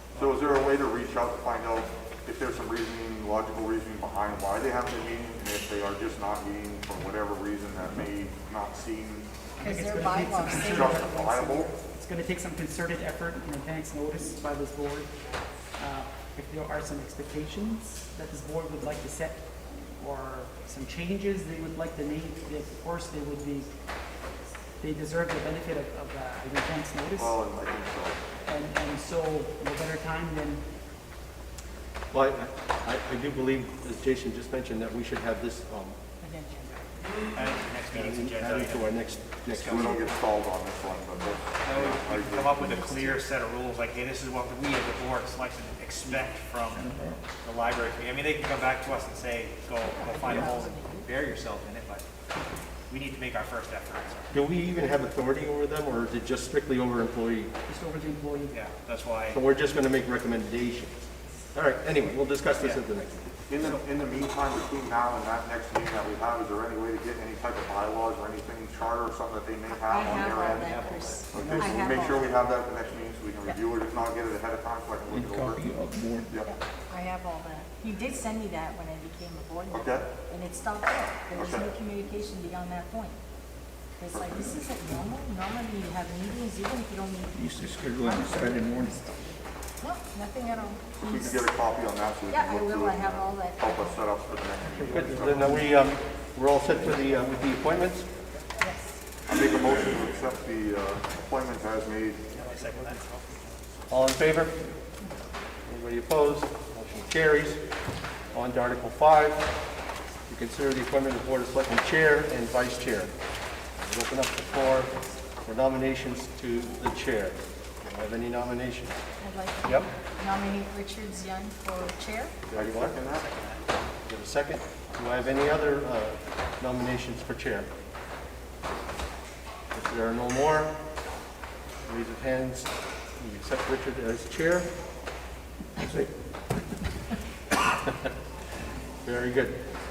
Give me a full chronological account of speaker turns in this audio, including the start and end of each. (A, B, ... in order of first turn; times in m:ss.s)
0:00.2-0:09.3 A
0:09.6-0:15.1 B
0:09.6-0:11.5 C
0:10.6-0:11.7 A
0:15.8-0:19.4 B
0:20.0-0:23.7 B
0:24.8-0:27.4 B
0:27.2-0:28.2 A
0:28.4-0:30.6 B
0:32.1-0:36.0 D
0:36.2-0:36.8 C
0:37.3-0:40.1 E
0:37.9-0:40.1 D
0:39.7-0:43.2 A
0:41.6-0:46.9 E
0:46.7-0:47.2 F
0:47.4-0:52.1 E
0:49.9-0:51.0 C
0:50.2-0:50.6 F
0:50.2-0:50.7 A
0:52.9-0:54.4 E
0:54.3-0:57.5 D
0:57.7-0:58.6 B
0:58.5-0:59.4 E
0:59.3-1:03.7 D
1:03.5-1:15.6 A
1:03.6-1:03.8 E
1:09.7-1:12.3 C
1:10.0-1:11.3 E
1:11.3-1:12.2 B
1:15.1-1:16.4 F
1:16.4-1:23.2 C
1:19.7-1:20.2 A
1:21.3-1:21.7 A
1:24.0-1:27.3 C
1:24.1-1:24.6 A
1:24.2-1:25.0 F
1:27.3-1:29.0 F
1:28.0-1:30.9 C
1:31.0-1:35.4 A
1:31.0-1:31.4 F
1:32.3-1:33.9 C
1:34.6-1:35.7 B
1:34.9-1:38.1 D
1:38.6-1:39.0 C
1:39.2-1:42.3 A
1:42.3-1:43.5 E
1:42.3-1:43.0 B
1:43.9-1:44.5 D
1:45.7-1:47.6 D
1:48.3-1:49.5 D
1:50.3-1:53.1 D
1:53.8-1:54.9 D
1:55.4-1:59.0 D
1:59.2-2:02.4 C
1:59.6-1:59.9 D
2:02.5-2:03.3 A
2:02.5-2:03.0 D
2:03.1-2:03.6 E
2:04.0-2:07.7 D
2:09.7-2:10.7 D
2:11.8-2:14.7 D
2:15.8-2:16.1 F
2:19.0-2:19.6 D